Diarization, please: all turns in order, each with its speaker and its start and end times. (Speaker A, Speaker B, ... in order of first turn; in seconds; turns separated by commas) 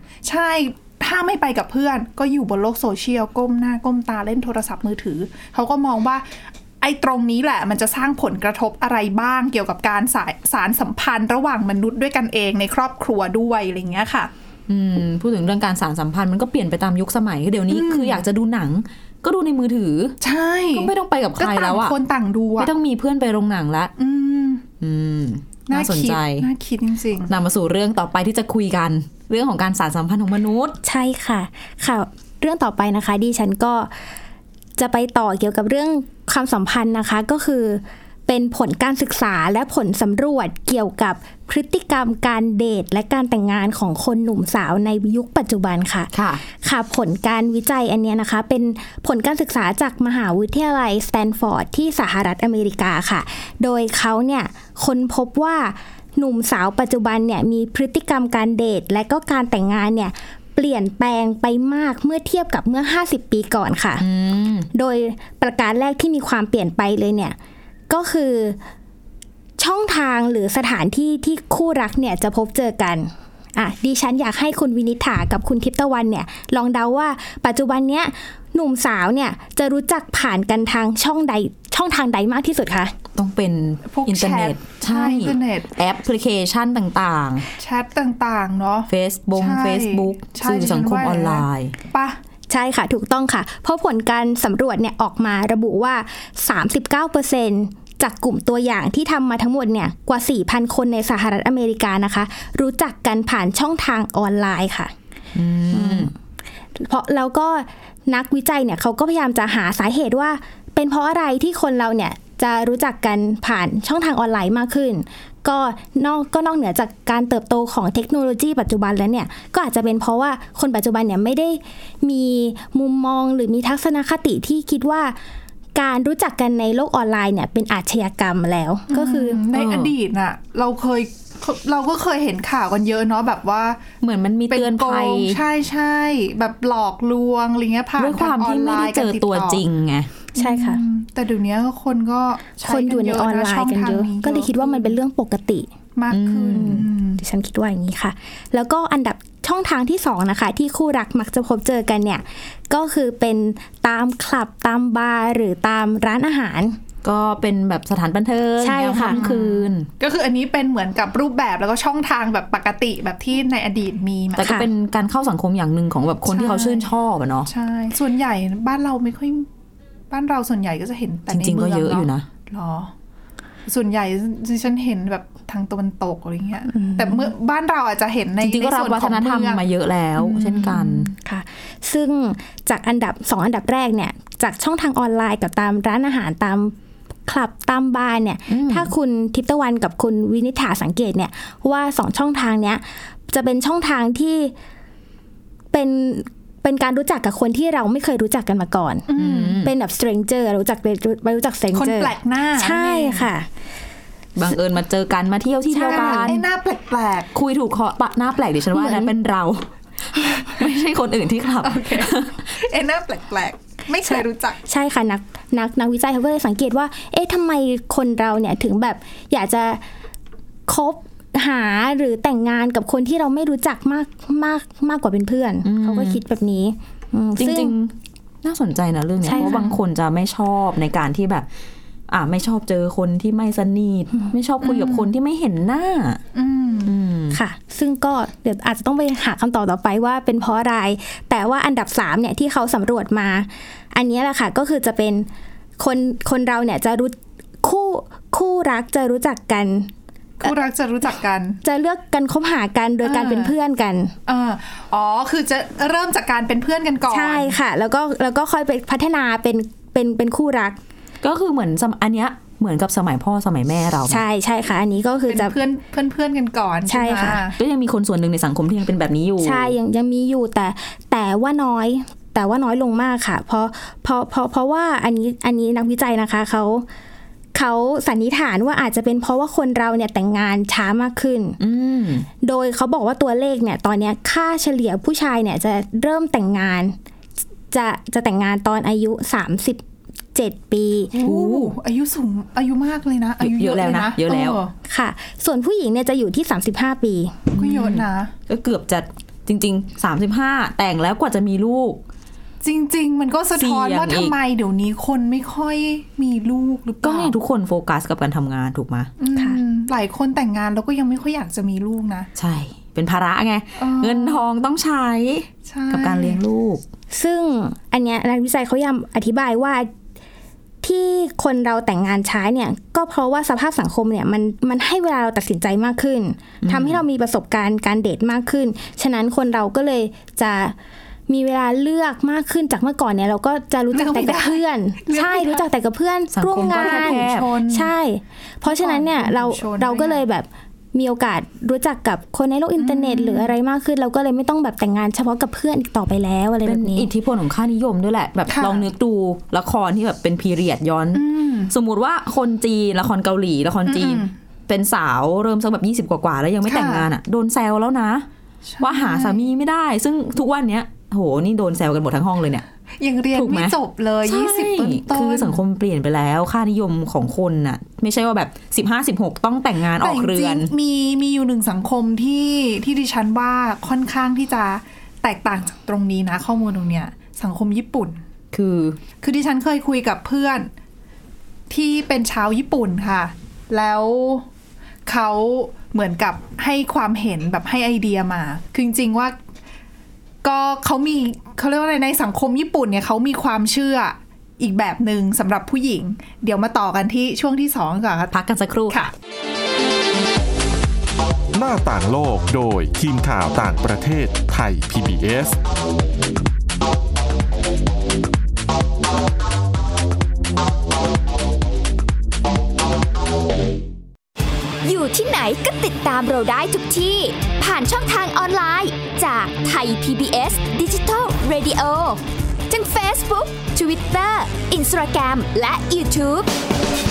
Speaker A: 0.2-6.3, Speaker A: 6.8-14.3, Speaker B: 14.7-20.2, Speaker A: 17.7-18.2, Speaker A: 20.2-22.7, Speaker B: 20.7-22.0, Speaker B: 22.6-23.9, Speaker A: 24.0-24.6, Speaker B: 24.8-26.5, Speaker A: 25.7-27.3, Speaker B: 27.3-30.8, Speaker C: 30.8-33.9, Speaker C: 34.8-46.1, Speaker B: 46.1-46.4, Speaker C: 46.6-64.1, Speaker B: 64.0-64.7, Speaker C: 64.7-67.4, Speaker C: 67.9-68.6, Speaker C: 69.6-82.9, Speaker B: 83.2-87.5, Speaker A: 83.9-85.7, Speaker A: 87.6-92.2, Speaker B: 88.9-91.8, Speaker C: 92.5-104.9, Speaker B: 105.3-106.1, Speaker C: 105.7-106.1, Speaker C: 106.8-125.2, Speaker C: 125.8-129.4, Speaker A: 128.9-133.8, Speaker B: 129.5-129.9, Speaker B: 134.0-135.4, Speaker A: 134.5-139.6, Speaker B: 138.0-140.1, Speaker A: 140.3-145.0, Speaker C: 140.4-140.8, Speaker C: 142.6-145.7, Speaker A: 146.0-147.2, Speaker B: 146.1-146.9, Speaker C: 147.2-156.8, Speaker B: 157.0-159.9, Speaker C: 158.6-159.2, Speaker A: 159.1-164.6, Speaker B: 164.4-167.5, Speaker C: 164.4-164.7, Speaker A: 166.3-166.9, Speaker A: 167.5-169.5, Speaker A: 170.1-172.9, Speaker B: 171.3-172.3, Speaker A: 173.7-179.6, Speaker C: 176.7-177.3, Speaker B: 178.4-181.1, Speaker A: 180.2-181.1, Speaker C: 181.2-186.8, Speaker C: 187.3-194.5, Speaker B: 188.5-188.9, Speaker C: 195.7-199.1, Speaker A: 199.1-199.6, Speaker B: 199.2-199.7, Speaker C: 199.6-203.5, Speaker A: 201.7-203.3, Speaker B: 204.4-206.4, Speaker C: 205.7-206.4, Speaker A: 205.8-207.3, Speaker B: 207.3-212.4, Speaker C: 208.7-209.1, Speaker A: 211.6-214.6, Speaker C: 214.1-219.8, Speaker C: 220.7-227.7, Speaker B: 225.6-226.2, Speaker B: 227.4-231.5, Speaker C: 229.2-229.6, Speaker A: 229.3-229.8, Speaker B: 232.1-236.2, Speaker A: 234.6-235.1, Speaker A: 236.3-236.9, Speaker B: 236.8-237.4, Speaker C: 237.3-245.3, Speaker C: 245.8-249.9, Speaker A: 250.4-251.6, Speaker C: 251.6-254.1, Speaker A: 253.0-253.6, Speaker A: 254.3-257.6, Speaker C: 257.1-260.8, Speaker B: 261.2-264.2, Speaker C: 264.1-265.6, Speaker A: 265.3-267.6, Speaker C: 266.9-267.4, Speaker B: 267.6-269.8, Speaker C: 269.4-276.9, Speaker C: 277.6-281.6, Speaker B: 281.6-282.3, Speaker C: 282.4-287.0, Speaker C: 287.7-289.8, Speaker C: 290.3-291.1, Speaker A: 291.1-294.7, Speaker B: 291.1-291.8, Speaker B: 293.4-294.6, Speaker C: 294.9-297.4, Speaker B: 297.5-302.0, Speaker A: 297.6-298.3, Speaker A: 302.6-307.3, Speaker B: 303.6-304.4, Speaker B: 307.0-309.1, Speaker A: 309.2-312.3, Speaker B: 312.4-316.8, Speaker A: 313.8-314.5, Speaker A: 315.7-316.4, Speaker C: 317.1-319.9, Speaker C: 320.8-330.8, Speaker B: 326.6-327.0, Speaker C: 331.3-347.1, Speaker A: 333.9-335.7, Speaker B: 336.3-337.5, Speaker A: 336.6-337.9, Speaker A: 338.6-340.2, Speaker A: 342.8-343.5, Speaker B: 346.6-358.3, Speaker A: 348.5-348.9, Speaker A: 351.1-351.7, Speaker A: 353.9-354.3, Speaker A: 356.7-357.1, Speaker A: 358.7-359.5, Speaker B: 358.8-362.6, Speaker A: 363.0-365.6, Speaker B: 363.3-370.7, Speaker A: 370.0-378.2, Speaker B: 378.5-379.0, Speaker A: 379.2-380.7, Speaker A: 381.7-384.5, Speaker A: 385.1-389.4, Speaker A: 390.4-398.3, Speaker B: 398.3-399.1, Speaker D: 401.5-405.6, Speaker E: 414.8-426.5